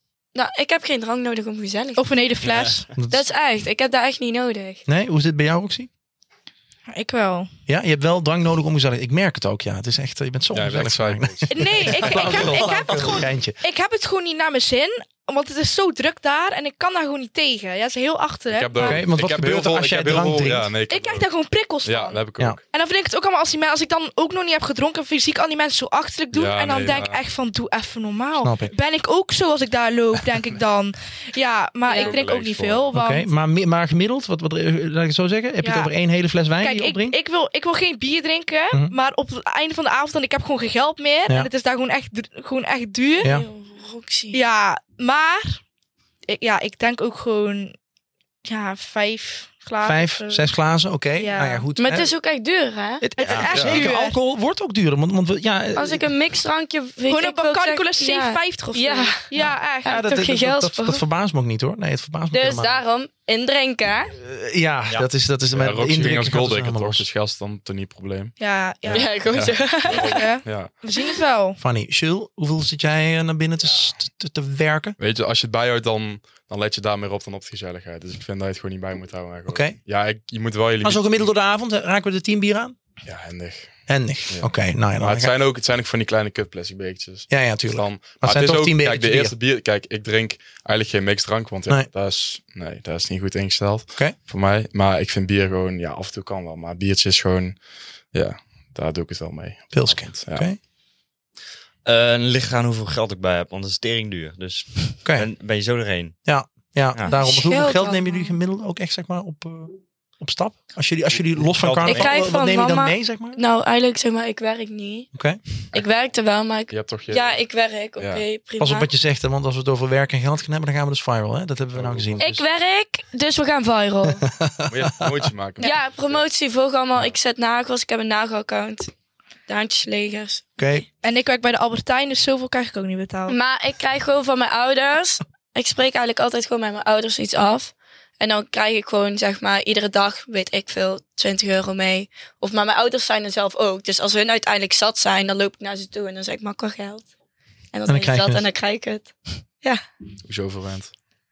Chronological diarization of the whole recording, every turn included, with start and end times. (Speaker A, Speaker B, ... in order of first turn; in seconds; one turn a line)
Speaker A: 0.3-2.0
Speaker B: 2.0-2.9
Speaker C: 3.0-3.2
Speaker A: 3.1-4.8
Speaker C: 4.9-5.9
Speaker B: 6.9-7.5
Speaker C: 7.7-13.6
Speaker D: 10.5-11.9
Speaker B: 11.5-19.1
Speaker D: 18.5-21.3
Speaker C: 18.8-20.7
Speaker B: 20.9-33.3
Speaker D: 21.8-22.6
Speaker D: 26.3-27.2
Speaker C: 28.4-28.7
Speaker A: 31.9-32.2
Speaker D: 31.9-33.0
Speaker C: 32.9-37.2
Speaker B: 35.6-35.9
Speaker B: 36.6-43.3
Speaker C: 43.2-43.5
Speaker A: 43.2-44.4
Speaker B: 44.3-45.6
Speaker B: 46.3-47.8
Speaker B: 48.5-50.4
Speaker C: 49.8-52.1
Speaker B: 51.2-51.7
Speaker A: 51.8-53.0
Speaker C: 53.0-56.1
Speaker B: 53.2-54.2
Speaker E: 53.3-53.5
Speaker D: 53.5-53.8
Speaker A: 55.8-59.3
Speaker B: 57.1-60.0
Speaker C: 59.4-62.8
Speaker A: 59.9-61.0
Speaker A: 62.3-64.2
Speaker C: 64.2-67.1
Speaker D: 65.5-70.8
Speaker B: 68.4-69.1
Speaker A: 68.9-70.3
Speaker B: 69.9-71.6
Speaker C: 71.6-75.0
Speaker D: 75.0-81.3
Speaker C: 79.5-79.8
Speaker C: 80.8-82.8
Speaker D: 83.0-97.6
Speaker C: 83.9-85.3
Speaker C: 87.3-89.3
Speaker D: 98.1-100.5
Speaker C: 99.7-100.6
Speaker E: 101.8-106.2
Speaker C: 106.3-113.4
Speaker A: 107.1-108.4
Speaker E: 111.3-112.3
Speaker A: 111.9-115.1
Speaker C: 115.1-115.4
Speaker A: 115.7-118.9
Speaker D: 116.7-117.4
Speaker D: 118.0-118.2
Speaker C: 118.6-122.4
Speaker D: 121.7-122.3
Speaker A: 122.2-124.3
Speaker C: 124.1-125.2
Speaker D: 124.7-126.2
Speaker A: 125.6-128.9
Speaker A: 129.5-130.4
Speaker C: 130.6-130.9
Speaker B: 131.0-133.4
Speaker A: 133.3-147.1
Speaker A: 147.7-149.8
Speaker C: 147.9-148.4
Speaker D: 150.2-150.9